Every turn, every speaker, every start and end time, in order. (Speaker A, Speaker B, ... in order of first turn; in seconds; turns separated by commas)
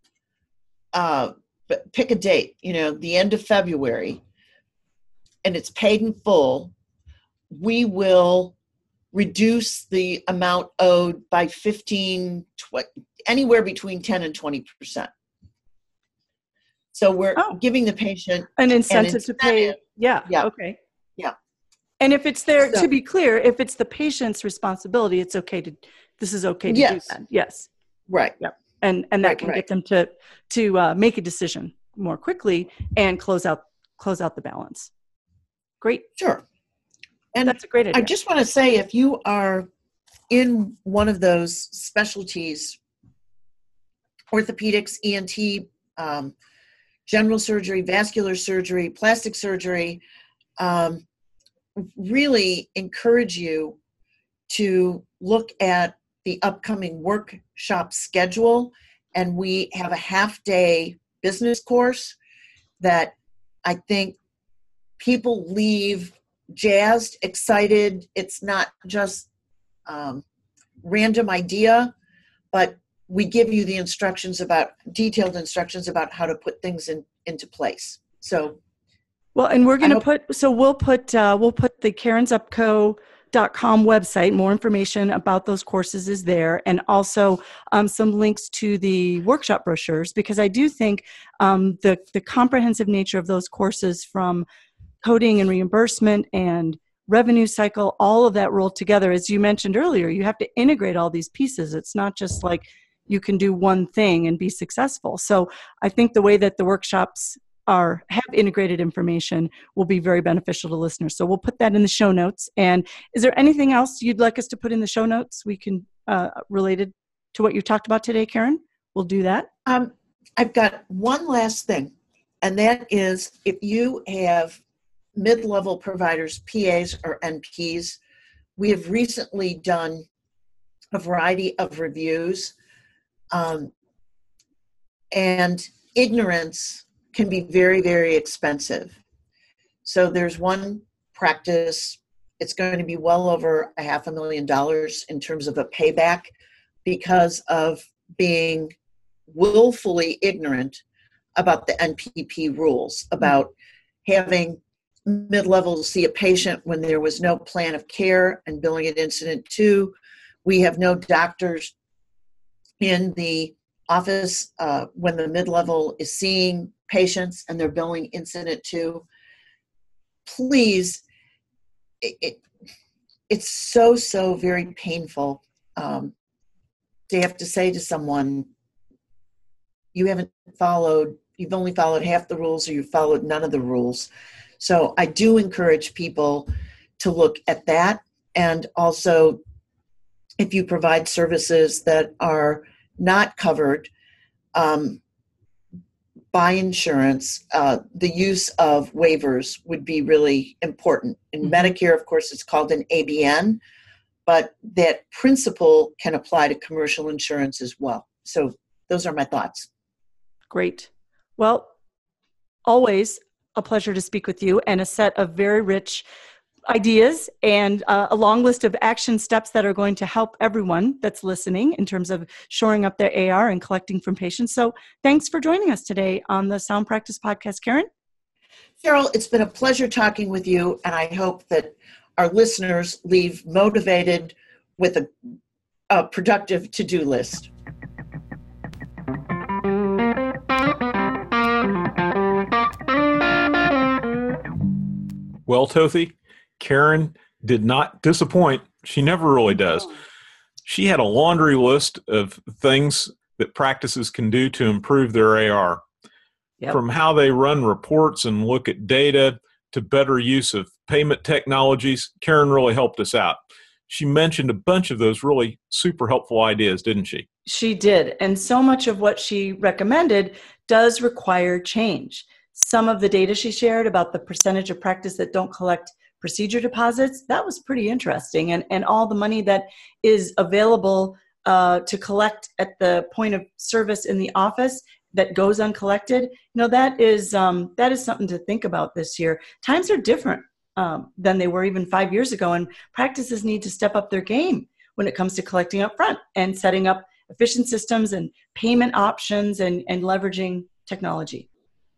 Speaker A: 0.9-4.2, Speaker A: 5.4-6.7, Speaker A: 7.5-8.5, Speaker A: 9.1-15.1, Speaker A: 16.9-20.5, Speaker B: 18.6-20.8, Speaker B: 22.0-27.7, Speaker A: 22.6-22.9, Speaker A: 26.7-27.1, Speaker A: 28.1-28.4, Speaker B: 28.4-34.9, Speaker A: 29.2-29.6, Speaker A: 36.2-36.4, Speaker A: 37.3-39.7, Speaker B: 37.5-38.1, Speaker A: 40.3-42.8, Speaker A: 44.3-46.3, Speaker A: 47.0-50.0, Speaker A: 50.6-51.0, Speaker A: 51.8-53.8, Speaker A: 54.5-62.1, Speaker A: 62.8-63.1, Speaker A: 63.6-64.2, Speaker A: 65.0-69.3, Speaker A: 69.9-70.2, Speaker A: 70.8-71.9, Speaker A: 72.5-78.6, Speaker B: 79.3-94.5, Speaker B: 95.0-119.5, Speaker A: 119.7-124.6, Speaker A: 125.2-128.0, Speaker A: 128.6-130.1, Speaker A: 130.9-132.5, Speaker A: 133.3-133.7, Speaker A: 135.1-139.0, Speaker A: 139.8-146.3, Speaker A: 146.8-148.7, Speaker A: 149.3-150.8, Speaker A: 151.3-153.5, Speaker A: 154.0-161.7, Speaker A: 162.8-169.0, Speaker A: 170.2-171.0, Speaker A: 172.0-172.4, Speaker A: 173.3-176.1, Speaker A: 177.1-178.5, Speaker A: 179.9-184.1, Speaker A: 184.6-189.4, Speaker A: 190.4-193.9, Speaker A: 194.5-195.0, Speaker A: 196.3-203.6, Speaker A: 204.2-209.7, Speaker B: 210.5-211.7, Speaker B: 212.7-216.0, Speaker B: 216.7-227.9, Speaker A: 228.8-235.1, Speaker A: 235.9-237.5, Speaker C: 245.5-249.9, Speaker C: 250.6-255.8, Speaker C: 256.7-263.4, Speaker C: 263.9-267.2, Speaker B: 267.4-301.5